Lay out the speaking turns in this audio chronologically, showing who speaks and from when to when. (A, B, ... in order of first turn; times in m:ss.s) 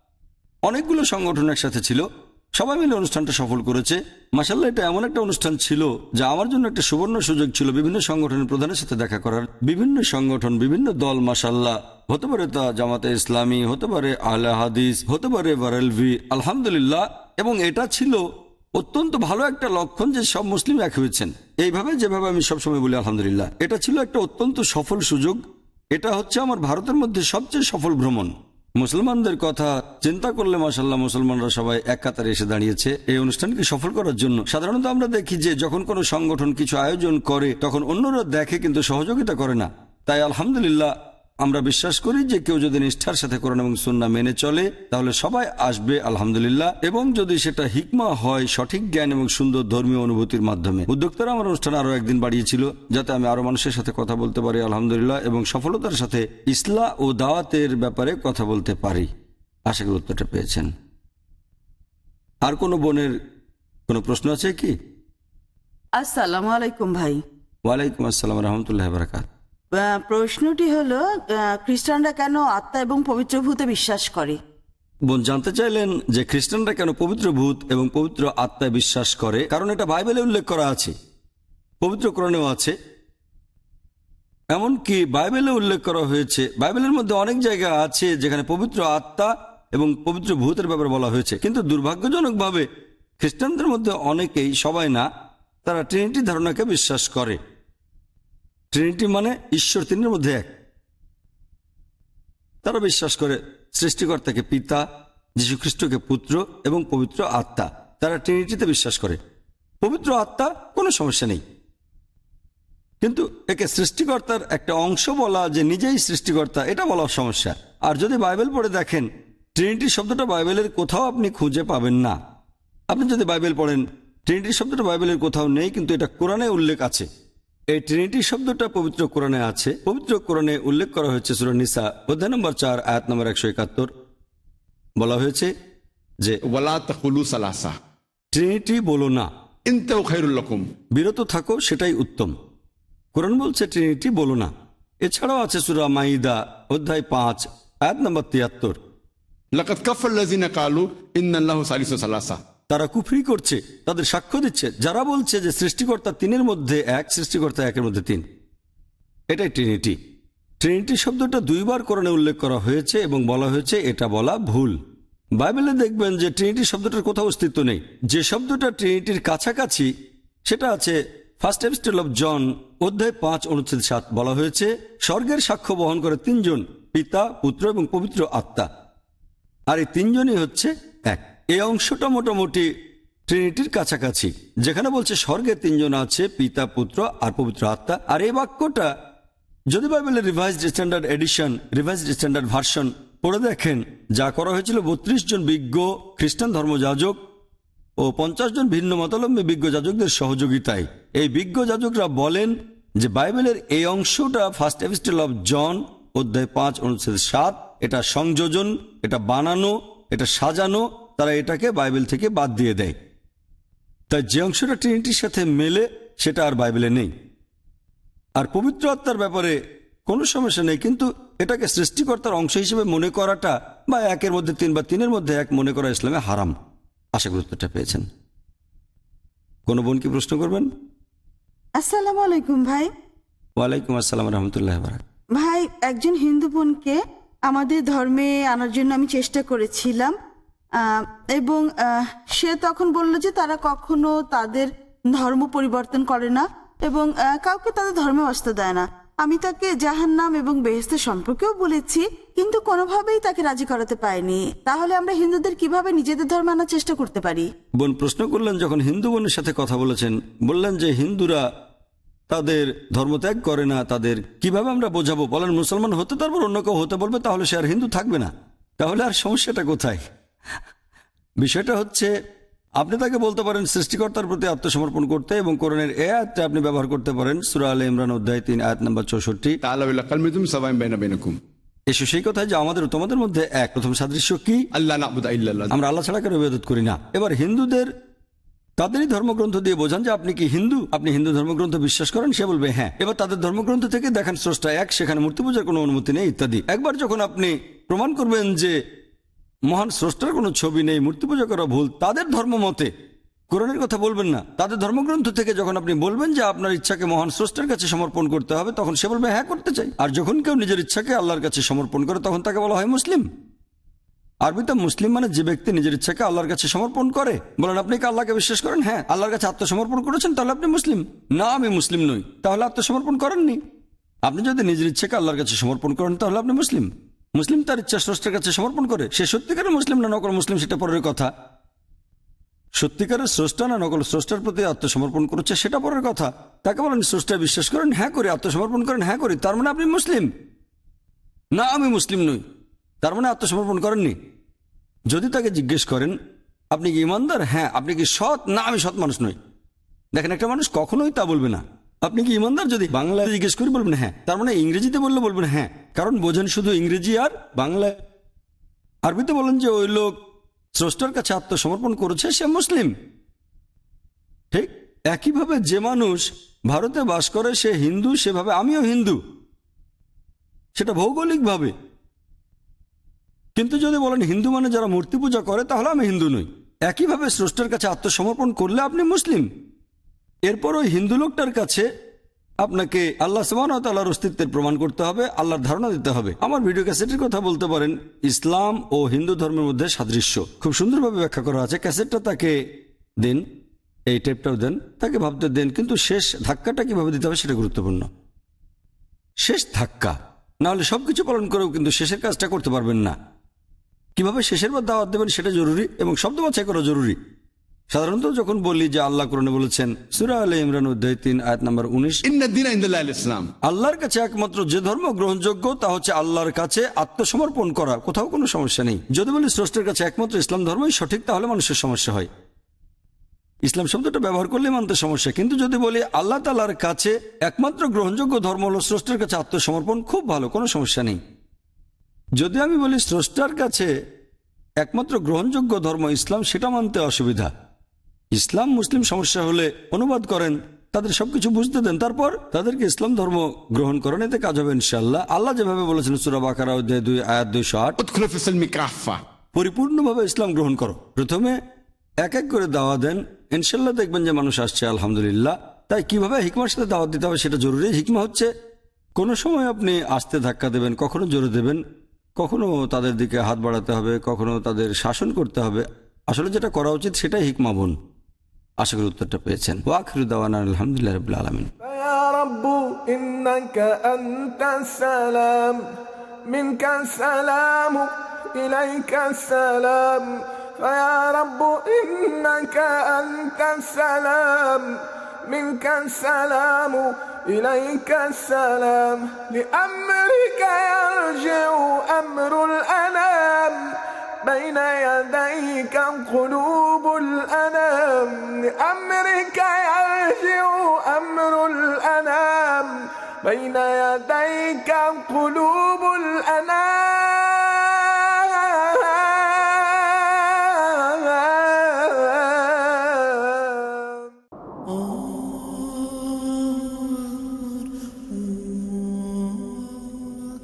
0:00.6-0:25.4 A
0:25.9-0:59.1 A
0:59.7-1:00.7 A
1:02.4-1:03.1 A
1:03.9-1:04.7 A
1:06.0-1:07.2 B
1:07.6-1:09.3 A
1:09.7-1:14.4 B
1:15.1-1:20.9 A
1:21.8-1:22.7 A
1:24.5-1:32.7 A
1:33.2-1:35.0 A
1:35.6-1:37.4 A
1:38.7-1:40.5 A
1:42.6-1:44.8 A
1:45.4-1:49.2 A
1:49.8-1:51.4 A
1:53.0-2:02.2 A
2:02.9-2:07.1 A
2:07.7-2:13.9 A
2:15.0-2:15.5 A
2:16.5-2:17.7 C
2:18.3-2:19.3 A
2:19.7-2:20.7 C
2:20.9-2:22.4 A
2:23.1-2:28.8 A
2:29.5-2:32.4 C
2:32.7-2:38.2 A
2:39.3-2:40.0 A
2:40.6-2:44.8 A
2:45.4-2:49.9 A
2:50.4-2:58.7 A
2:59.7-3:02.7 A
3:03.3-3:08.9 A
3:09.7-3:17.2 A
3:18.0-3:33.0 A
3:34.1-3:37.1 A
3:38.4-3:46.5 A
3:47.1-3:48.1 A
3:49.7-3:50.7 A
3:51.8-3:52.9 B
3:53.6-3:55.0 A
3:55.4-4:00.1 B
4:00.8-4:17.5 B
4:17.8-4:21.5 A
4:22.3-4:30.1 A
4:31.4-4:32.1 A
4:32.8-4:39.6 A
4:39.6-4:41.4 C
4:41.9-4:44.6 A
4:44.7-4:45.7 C
4:45.7-4:47.9 A
4:48.8-4:58.8 A
4:59.7-5:02.9 A
5:03.5-5:13.2 A
5:14.4-5:23.6 A
5:24.2-5:31.3 A
5:32.8-5:40.3 A
5:41.5-5:42.4 A
5:43.0-5:44.2 A
5:45.1-5:46.1 A
5:46.7-5:49.4 A
5:50.1-5:58.0 A
5:59.0-6:00.1 A
6:00.7-6:02.9 A
6:04.5-6:09.2 A
6:10.7-6:11.7 A
6:13.6-6:19.5 A
6:20.5-6:21.9 A
6:22.6-6:32.6 A
6:34.1-6:38.1 A
6:39.4-6:43.2 A
6:44.2-6:47.2 A
6:47.9-6:52.2 A
6:52.2-6:53.5 C
6:53.6-7:02.3 A
7:03.6-7:11.2 A
7:12.4-7:13.9 A
7:14.8-7:17.5 A
7:18.3-7:28.0 A
7:28.0-7:29.2 C
7:29.5-7:31.6 A
7:32.2-7:38.5 A
7:39.2-7:41.8 A
7:42.4-7:48.0 A
7:48.8-7:51.7 A
7:51.8-7:55.8 D
7:56.5-8:34.3 D